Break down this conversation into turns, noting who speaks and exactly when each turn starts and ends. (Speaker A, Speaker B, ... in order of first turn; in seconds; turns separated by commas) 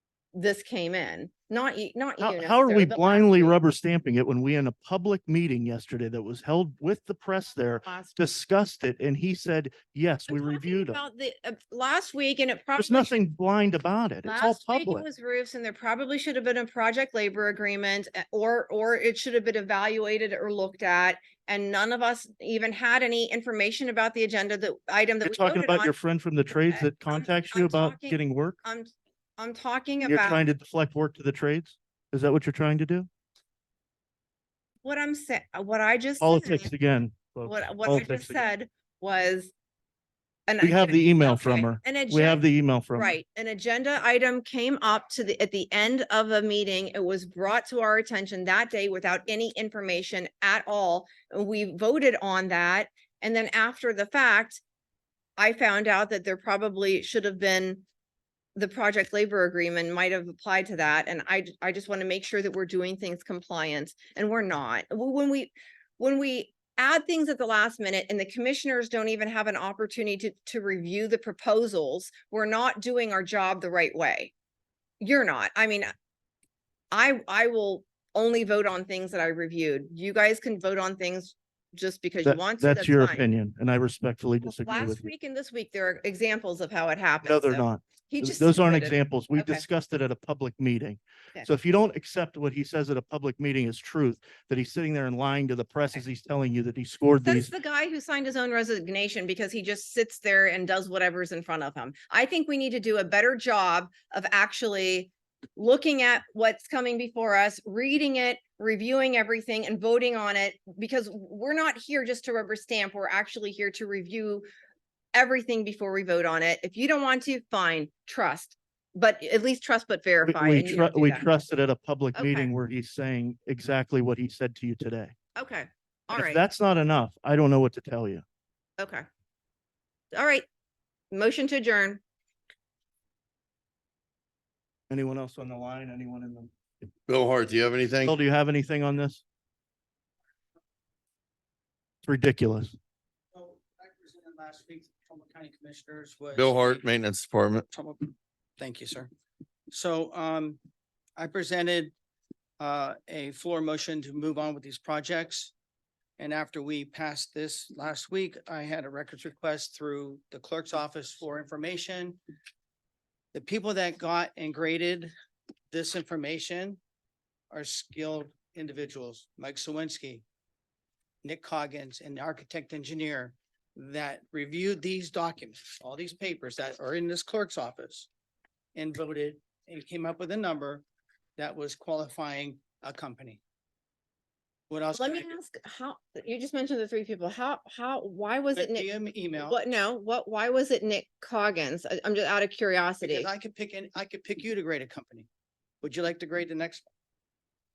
Speaker A: 0.3-3.5, Speaker B: 2.2-11.0, Speaker A: 7.8-8.2, Speaker A: 10.3-13.2, Speaker B: 12.8-15.0, Speaker A: 14.2-25.9, Speaker B: 25.2-28.6, Speaker A: 26.7-30.4, Speaker B: 30.0-33.1, Speaker A: 34.8-36.7, Speaker B: 36.2-38.4, Speaker A: 37.5-39.5, Speaker A: 40.5-42.4, Speaker B: 40.6-43.1, Speaker A: 43.0-54.6, Speaker A: 55.4-57.8, Speaker A: 58.5-74.3, Speaker A: 75.0-75.9, Speaker A: 76.9-83.2, Speaker B: 82.2-85.1, Speaker A: 84.4-89.6, Speaker B: 87.2-97.5, Speaker A: 97.2-114.5, Speaker A: 115.1-121.2, Speaker B: 120.2-125.1, Speaker A: 122.1-122.5, Speaker A: 125.4-126.4, Speaker B: 126.1-128.2, Speaker A: 128.8-129.1, Speaker A: 130.1-130.5, Speaker A: 131.1-132.0, Speaker B: 134.9-136.5, Speaker C: 137.1-138.1, Speaker B: 138.0-139.2, Speaker B: 142.0-142.8, Speaker D: 143.3-146.8, Speaker C: 146.3-147.7, Speaker D: 147.7-149.1, Speaker D: 149.7-150.6, Speaker D: 151.2-151.9, Speaker D: 152.6-155.5, Speaker D: 156.2-162.2, Speaker D: 163.3-165.1, Speaker D: 165.7-166.8, Speaker D: 167.5-170.2, Speaker D: 171.2-178.1, Speaker D: 178.8-180.8, Speaker D: 181.4-183.4, Speaker D: 184.7-185.3, Speaker A: 184.9-188.9, Speaker D: 188.5-189.6, Speaker A: 189.4-193.3, Speaker D: 193.0-195.3, Speaker D: 195.8-196.9